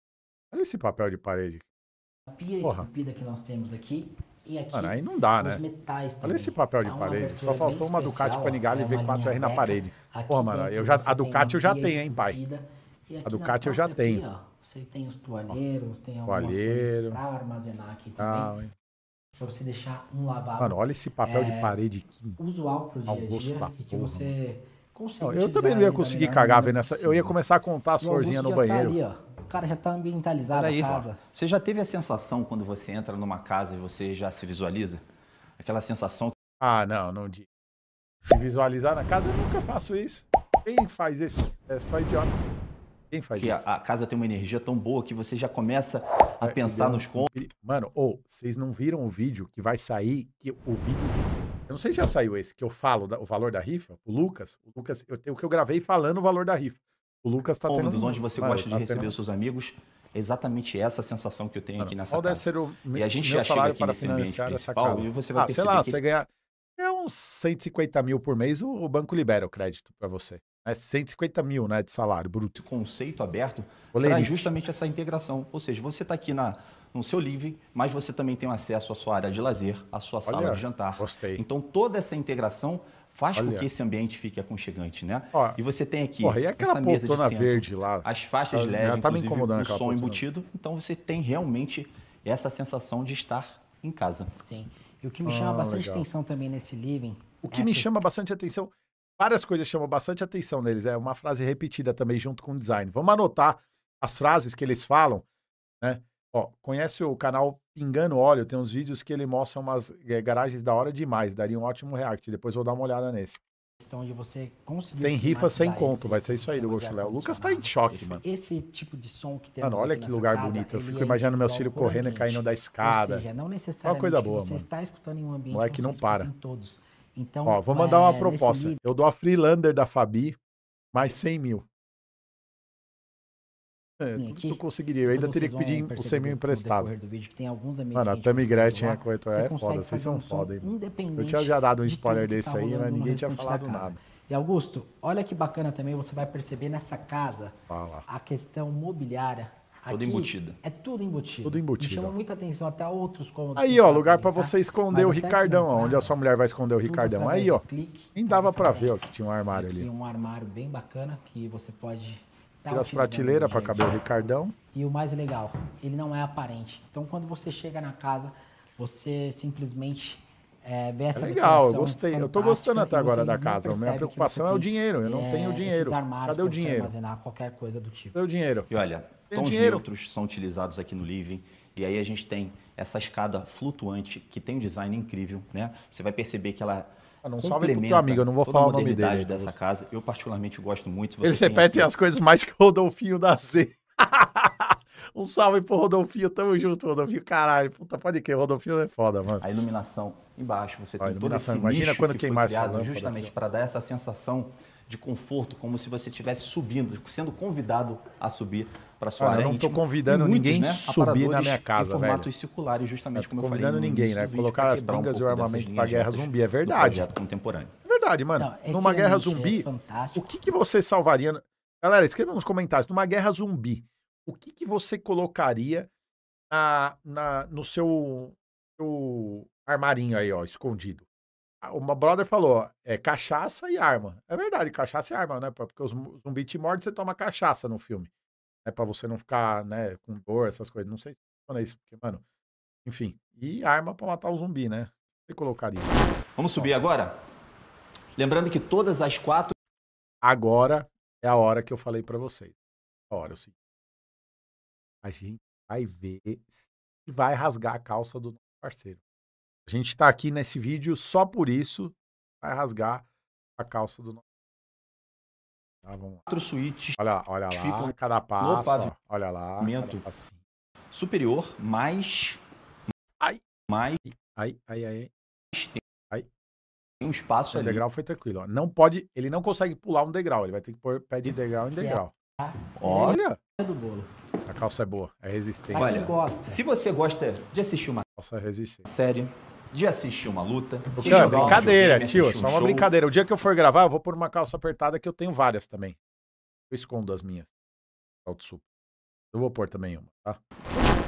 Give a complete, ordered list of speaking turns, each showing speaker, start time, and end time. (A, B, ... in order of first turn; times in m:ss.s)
0:00.5-0:01.6 A
0:02.3-0:18.6 B
0:04.7-0:05.6 A
0:06.2-0:12.4 A
0:13.2-0:14.2 A
0:16.3-0:17.2 A
0:18.2-0:18.7 A
0:19.4-0:21.8 B
0:20.6-0:22.4 A
0:22.4-0:27.4 B
0:23.1-0:24.3 A
0:25.2-0:29.0 A
0:28.0-0:31.2 B
0:30.5-0:35.0 C
0:35.6-0:36.3 C
0:36.6-0:37.4 A
0:38.3-0:42.4 A
0:43.1-0:43.6 A
0:43.4-0:47.3 C
0:46.4-0:59.1 A
0:57.7-1:06.0 C
1:01.8-1:12.5 A
1:12.5-1:34.3 C
1:13.9-1:14.5 A
1:20.3-1:21.4 A
1:23.3-1:23.6 A
1:25.3-1:25.6 A
1:26.2-1:30.2 A
1:34.3-1:38.0 B
1:35.2-1:36.0 A
1:37.4-1:45.2 A
1:45.8-1:53.4 A
1:53.8-2:08.8 B
1:55.0-1:58.2 A
1:57.9-1:58.2 C
1:59.6-2:03.2 A
2:03.8-2:04.6 A
2:05.5-2:06.3 A
2:07.4-2:10.4 A
2:10.9-2:11.6 A
2:14.0-2:16.9 A
2:14.1-2:27.5 B
2:17.9-2:24.0 A
2:27.7-2:28.0 A
2:28.1-2:36.2 B
2:29.9-2:30.6 C
2:31.4-2:32.1 A
2:33.6-2:37.6 A
2:36.8-2:39.0 B
2:38.1-2:39.9 A
2:39.5-2:44.0 B
2:42.7-2:44.5 A
2:44.7-2:58.2 B
2:51.1-2:56.9 A
2:58.1-2:58.7 A
2:58.7-3:11.9 C
2:59.3-2:59.8 A
3:07.2-3:09.5 A
3:11.2-3:19.5 A
3:19.4-3:37.7 C
3:21.0-3:23.3 A
3:29.2-3:32.3 A
3:33.2-3:37.1 A
3:37.8-3:45.9 A
3:38.4-3:40.4 B
3:46.5-3:51.0 A
3:51.6-3:58.1 A
3:58.6-4:02.2 A
4:02.8-4:06.0 A
4:06.4-4:07.1 C
4:08.2-4:09.5 C
4:10.2-4:12.5 A
4:13.1-4:13.5 A
4:15.0-4:19.0 A
4:19.6-4:23.0 A
4:23.6-4:24.2 A
4:25.8-4:26.2 A
4:26.3-4:27.0 C
4:27.0-4:30.4 A
4:27.5-4:28.9 C
4:29.6-4:30.0 C
4:30.9-4:32.4 C
4:33.7-4:34.0 C
4:34.0-4:35.1 A
4:35.5-4:35.8 C
4:37.0-4:37.8 C
4:37.5-4:42.1 A
4:41.7-4:44.1 B
4:42.8-4:43.2 C
4:42.9-4:43.4 A
4:44.4-4:46.0 A
4:45.7-4:46.6 B
4:45.7-4:48.0 C
4:48.2-4:48.8 A
4:48.8-4:52.9 C
4:51.0-4:56.0 A
4:51.0-4:51.7 B
4:56.7-4:57.5 A
4:58.2-4:58.6 A
4:59.3-5:00.4 A